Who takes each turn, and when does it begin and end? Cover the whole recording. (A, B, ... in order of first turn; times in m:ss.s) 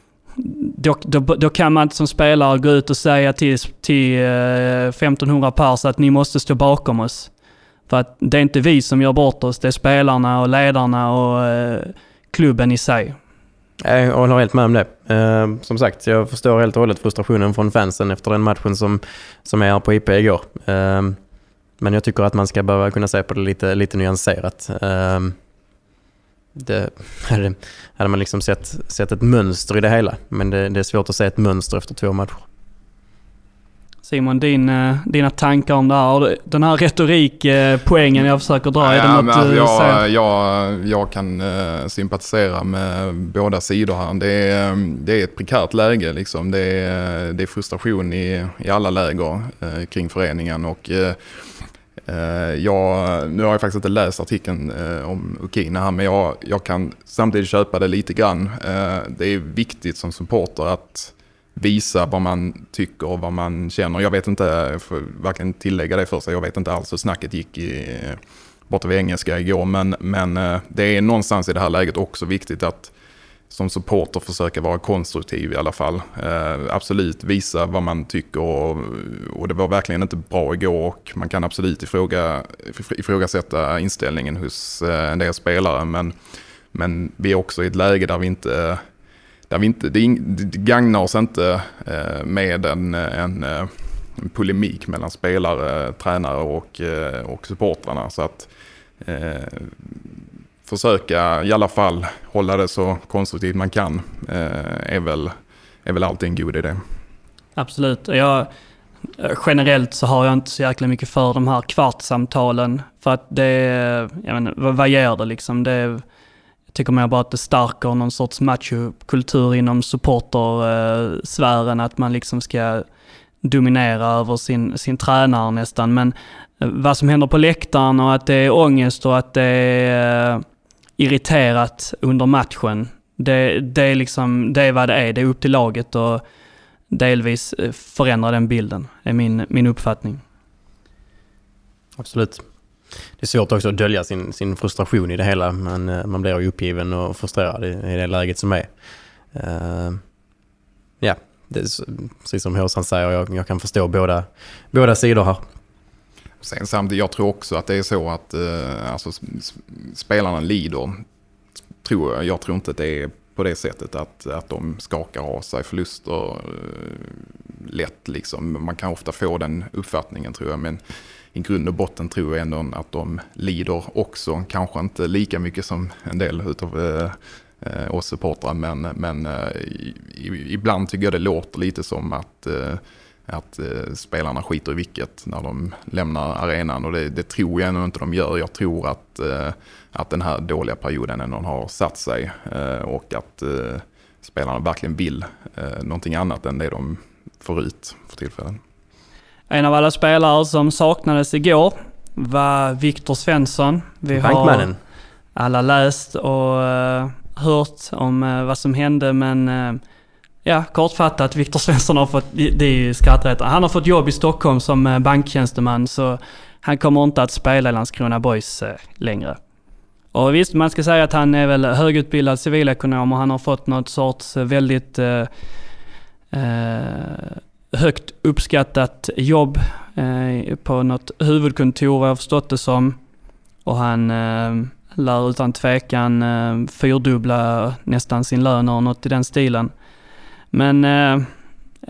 0:00.4-0:07.3 A
0:07.9-0:13.2 A
0:13.8-0:21.2 B
0:21.8-0:25.4 B
0:26.6-0:32.4 B
0:34.0-0:40.0 A
0:38.8-1:12.9 C
1:13.5-1:26.2 C
1:26.7-1:28.8 C
1:29.5-1:38.5 C
1:39.0-1:40.0 C
1:40.7-1:45.3 C
1:45.8-1:46.8 C
1:47.6-1:48.5 A
1:49.2-1:56.0 A
1:56.7-2:02.8 A
2:03.4-2:10.4 A
2:11.0-2:16.2 A
2:16.9-2:20.2 A
2:22.0-2:22.4 B
2:23.2-2:28.7 B
2:29.3-2:30.0 B
2:31.0-2:35.4 B
2:36.4-2:41.0 C
2:41.8-2:50.8 C
2:51.3-3:18.6 C
3:19.5-3:24.7 A
3:24.2-3:24.8 B
3:25.4-3:29.8 A
3:30.4-3:39.4 A
3:40.1-3:45.3 A
3:46.3-3:53.0 A
3:53.6-3:59.7 A
4:00.5-4:01.3 A